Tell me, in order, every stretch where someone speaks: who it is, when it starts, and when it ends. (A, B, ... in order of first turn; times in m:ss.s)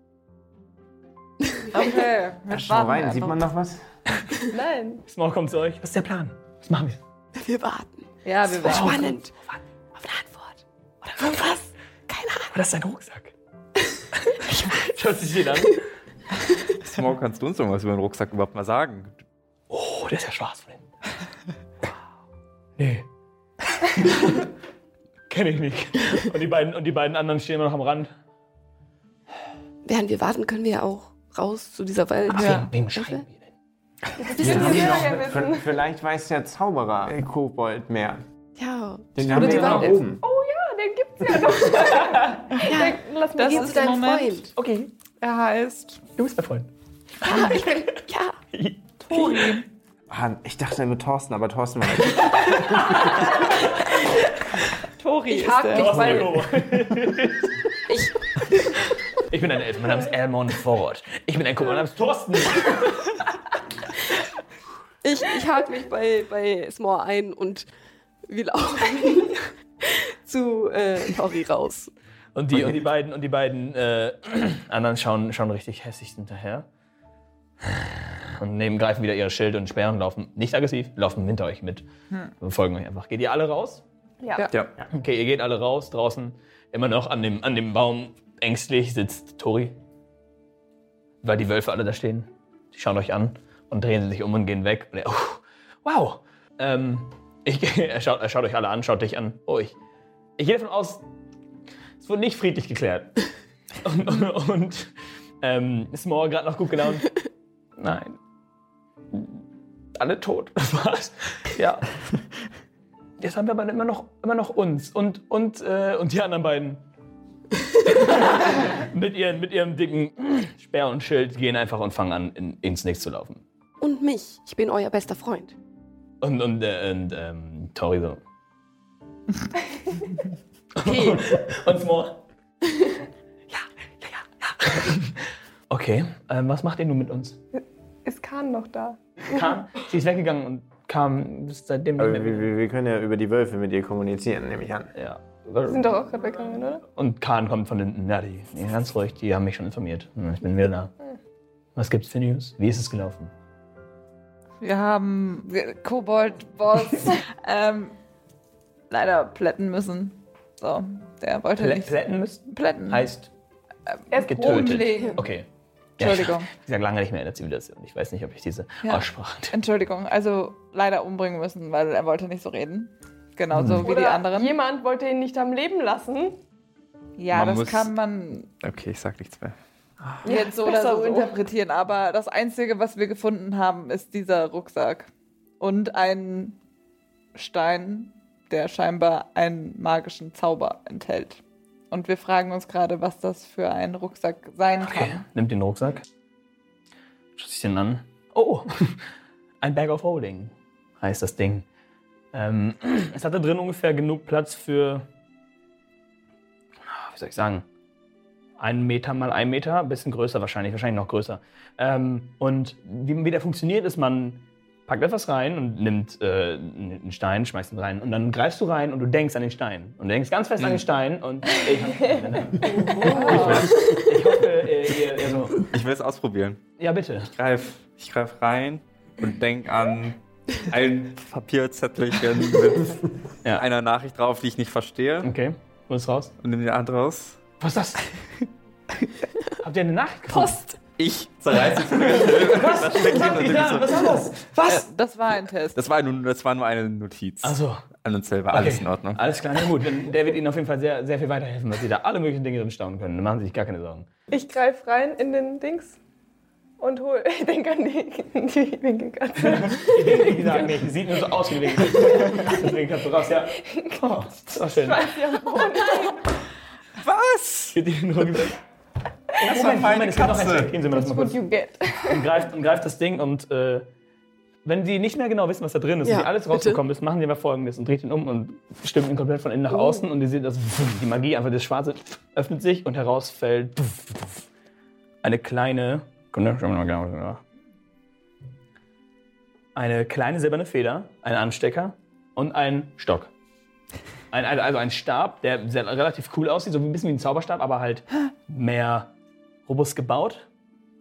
0:01.7-0:03.4 A
0:02.5-0:03.8 B
0:04.5-0:05.0 C
0:05.1-0:07.0 D
0:07.4-0:09.3 E
0:08.2-0:09.1 A
0:08.6-0:09.6 D
0:11.2-0:12.5 E
0:12.5-0:13.3 D
0:14.2-0:15.8 D
0:16.8-0:19.2 F
0:19.7-0:20.9 D
0:22.8-0:23.1 D
0:23.8-0:24.5 D
0:25.3-0:28.1 D
0:29.8-0:33.2 E
0:32.3-0:33.5 D
0:32.3-0:32.7 A
0:34.2-0:35.7 C
0:34.4-0:38.2 B
0:34.4-0:34.7 E
0:38.6-0:40.0 E
0:39.2-0:40.2 B
0:39.3-0:40.0 A
0:40.2-0:44.1 C
0:42.6-0:44.5 E
0:43.4-0:44.5 A
0:44.6-0:44.9 D
0:45.2-0:46.0 A
0:46.2-0:46.7 D
0:47.2-0:48.4 E
0:47.3-0:47.6 A
0:48.5-0:49.6 D
0:49.0-0:49.6 A
0:50.1-0:53.5 B
0:52.2-0:54.0 D
0:55.0-0:56.3 A
0:55.3-0:56.4 E
0:55.4-0:56.3 C
0:55.7-0:57.6 D
0:57.9-0:58.7 E
0:59.3-1:03.4 D
1:05.0-1:07.7 E
1:08.3-1:11.9 E
1:12.4-1:16.7 D
1:17.6-1:21.8 D
1:22.4-1:23.8 D
1:24.2-1:24.5 C
1:24.9-1:29.8 D
1:31.2-1:39.7 D
1:40.4-1:41.0 D
1:42.0-1:43.3 D
1:43.8-1:47.1 D
1:47.8-1:48.2 D
1:49.1-1:49.4 D
1:50.0-1:52.0 D
1:53.2-1:56.8 D
1:57.9-2:03.4 D
2:03.8-2:05.6 E
2:06.2-2:08.2 D
2:10.8-2:12.2 D
2:10.8-2:11.3 E
2:13.5-2:17.4 D
2:18.0-2:19.0 C
2:19.2-2:22.5 D
2:22.0-2:24.9 B
2:25.0-2:26.0 D
2:25.7-2:26.8 C
2:26.9-2:30.9 D
2:31.8-2:33.3 D
2:34.6-2:38.0 A
2:38.9-2:42.0 A
2:41.6-2:43.3 D
2:42.5-2:43.1 A
2:43.9-2:45.3 A
2:44.1-2:45.1 C
2:44.2-2:45.5 D
2:46.0-2:49.5 D
2:46.0-2:46.5 A
2:48.8-2:54.6 A
2:53.5-2:53.9 D
2:53.8-2:56.4 C
2:57.2-2:58.5 A
2:57.3-2:57.9 F
2:58.6-2:59.6 F
3:00.2-3:01.4 C
3:00.2-3:06.6 A
3:07.4-3:15.2 A
3:14.8-3:16.1 D
3:17.4-3:19.0 D
3:19.6-3:21.6 D
3:22.3-3:25.1 D
3:26.8-3:27.6 D
3:28.6-3:45.7 D
3:42.6-3:43.9 C
3:42.8-3:43.7 A
3:43.3-3:43.8 F
3:45.6-3:46.6 F
3:46.8-3:47.3 D
3:47.3-3:55.3 F
3:55.2-3:56.3 D
3:56.4-3:57.4 F
3:57.6-3:58.5 D
3:59.6-4:00.6 D
4:00.3-4:00.8 E
4:01.0-4:04.2 F
4:01.6-4:04.8 D
4:04.6-4:05.8 A
4:05.8-4:09.2 F
4:07.4-4:07.9 D
4:08.5-4:14.1 D
4:14.3-4:16.0 C
4:16.8-4:20.5 C
4:19.4-4:25.1 D
4:22.0-4:22.6 C
4:23.6-4:26.3 C
4:27.0-4:27.8 F
4:27.7-4:28.6 D
4:29.4-4:31.4 D
4:29.4-4:30.8 F
4:30.9-4:32.3 C
4:32.0-4:33.9 D
4:34.6-4:44.5 D
4:36.0-4:36.8 E
4:39.7-4:40.0 E
4:45.2-4:47.4 D
4:49.8-4:53.3 D
4:54.3-4:59.1 D
4:59.7-5:00.5 D